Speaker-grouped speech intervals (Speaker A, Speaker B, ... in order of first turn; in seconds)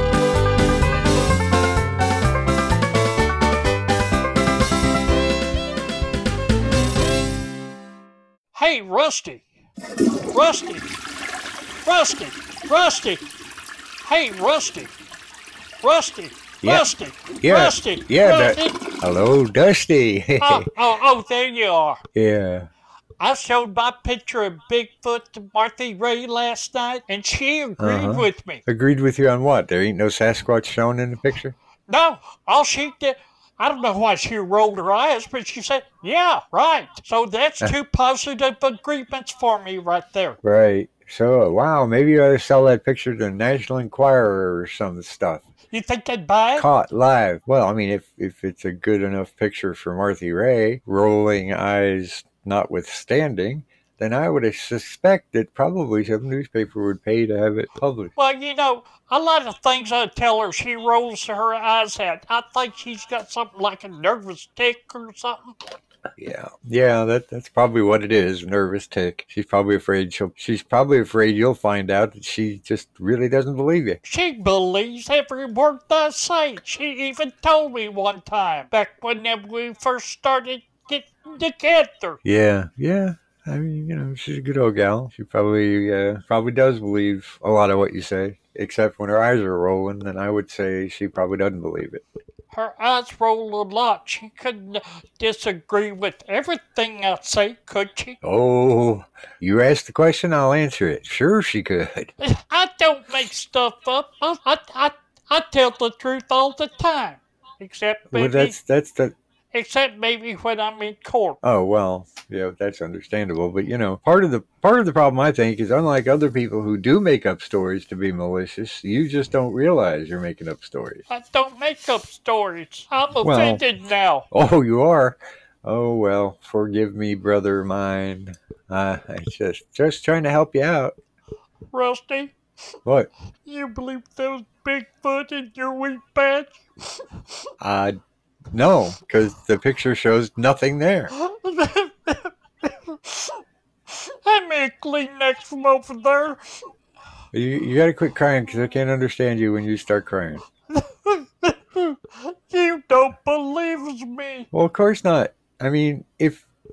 Speaker A: 8.6-9.5, 10.3-10.9, 11.8-13.2, 14.1-14.9, 15.8-18.9, 20.4-22.0, 23.2-28.6, 31.9-40.4, 45.7-46.7, 58.2-65.6, 74.0-82.2, 92.5-98.2, 102.2-108.5, 109.5-111.4, 121.1-124.3, 131.7-132.3, 133.4-137.0, 141.1-143.4, 143.9-146.4, 150.7-154.5
Speaker B: 17.4-20.7, 22.1-22.7, 27.8-31.6, 40.4-45.5, 46.6-58.1, 66.2-74.0, 82.2-92.0, 98.2-102.1, 108.1-109.1, 111.4-121.0, 123.2-123.6, 124.3-130.9, 137.6-138.0, 138.5-141.1, 147.3-150.4, 154.5-156.5